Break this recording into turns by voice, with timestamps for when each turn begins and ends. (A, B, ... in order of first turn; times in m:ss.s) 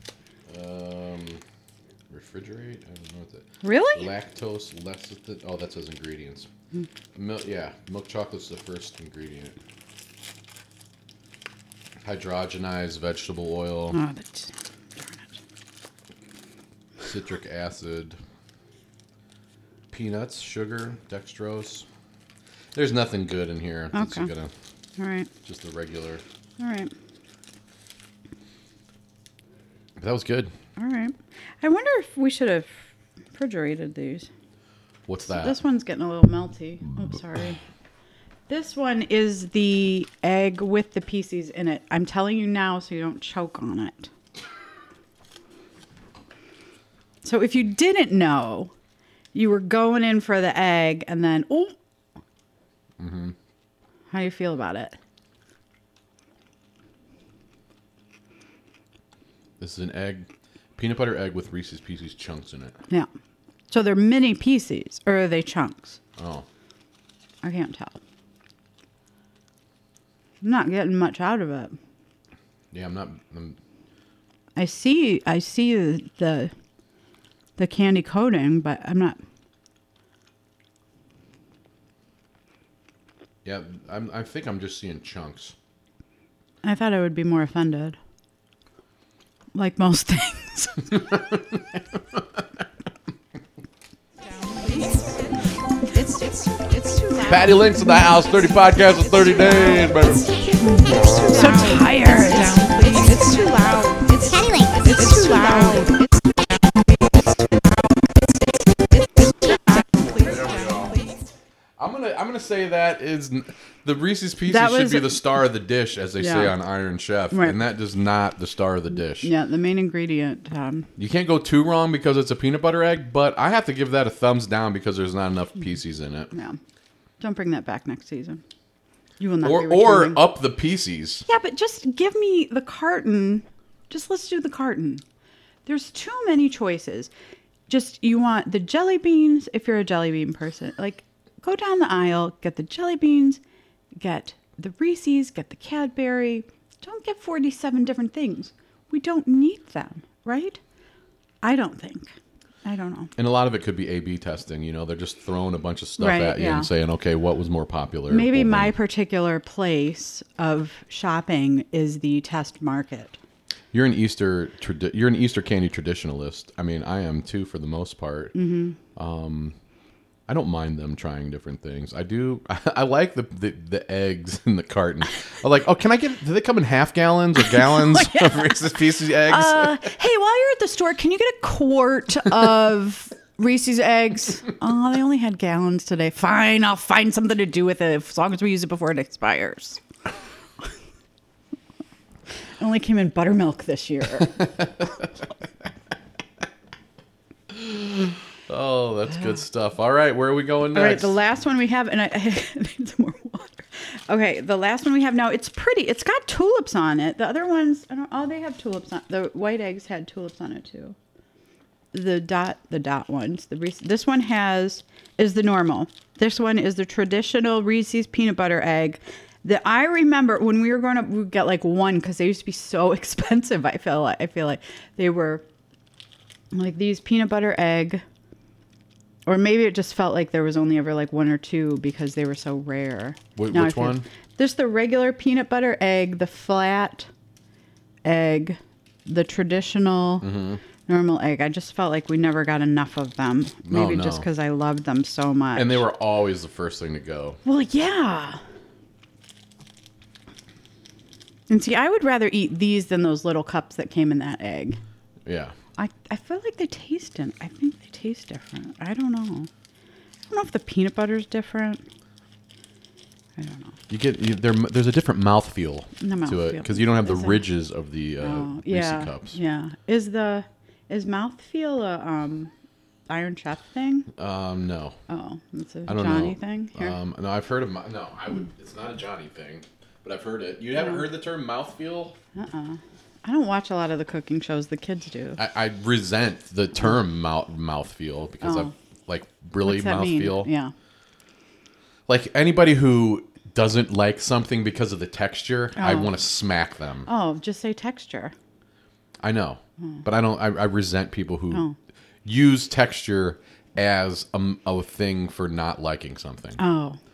0:00.5-0:01.4 A
0:02.1-0:06.5 A
0:03.6-0:04.1 B
0:07.1-0:09.6 A
0:12.0-0:14.0 A
0:13.9-0:15.3 B
0:17.0-0:18.2 A
0:19.9-0:21.8 A
0:22.7-0:24.5 A
0:23.9-0:24.3 B
0:25.0-0:25.3 B
0:25.4-0:26.2 A
0:26.6-0:26.9 B
0:30.0-0:30.5 A
0:30.8-0:34.3 B
0:35.0-0:35.6 A
0:35.2-0:37.6 B
0:38.5-0:44.1 B
0:47.2-0:48.7 B
0:49.3-0:51.7 B
0:53.0-0:53.3 A
0:54.1-0:55.0 B
0:59.6-1:02.8 A
1:03.7-1:06.0 B
1:06.2-1:06.4 A
1:07.4-1:08.0 B
1:10.4-1:11.8 B
1:12.7-1:13.6 A
1:14.6-1:16.5 B
1:17.6-1:19.2 B
1:23.4-1:25.5 A
1:26.6-1:28.0 B
1:29.5-1:31.0 B
1:34.5-1:35.0 C
1:35.9-1:37.4 C
1:37.2-1:40.3 A
1:40.7-1:42.5 B
1:40.9-1:46.1 C
1:49.7-1:51.1 C
1:50.2-1:50.9 A
1:51.8-1:59.3 A
1:54.5-1:55.2 B
1:56.2-1:56.5 B
1:57.3-1:57.6 B
1:59.2-2:00.9 B
2:01.0-2:06.3 A
2:06.3-2:06.6 B
2:07.2-2:08.4 B
2:09.2-2:10.2 B
2:09.4-2:11.2 A
2:11.2-2:15.0 B
2:15.6-2:17.1 B
2:17.7-2:23.4 B
2:24.0-2:30.6 B
2:31.4-2:32.1 B
2:32.6-2:33.1 B
2:33.2-2:38.7 A
2:36.0-2:36.7 B
2:38.1-2:43.2 B
2:43.7-2:48.3 A
2:48.3-2:48.8 B
2:49.0-2:49.5 A
2:50.3-2:59.8 A
2:57.6-2:58.7 B
2:59.2-3:09.8 B
3:12.6-3:14.5 B
3:17.5-3:21.1 A
3:20.7-3:31.0 B
3:31.9-3:45.4 B
3:46.5-3:48.0 B
3:49.2-3:57.1 B
3:53.4-3:54.0 A
3:58.0-4:00.3 B
4:00.2-4:00.6 A
4:00.9-4:05.8 B
4:03.6-4:04.2 A
4:05.6-4:07.4 A
4:07.4-4:08.4 B
4:11.5-4:14.8 B
4:15.2-4:15.5 A
4:15.8-4:19.5 B
4:20.3-4:21.8 B
4:23.4-4:23.8 B
4:23.9-4:29.4 A
4:26.0-4:27.4 B
4:28.2-4:32.5 B
4:33.1-4:34.1 B
4:34.2-4:35.0 A
4:35.1-4:36.9 B
4:35.9-4:42.2 A
4:42.3-4:45.4 B
4:45.4-4:50.5 A
4:48.4-4:48.7 B
4:49.6-4:50.7 B
4:52.1-4:57.1 A
4:55.8-4:56.1 B
4:57.1-4:58.3 B
4:59.2-5:01.6 A
5:02.2-5:06.6 A
5:06.6-5:07.0 B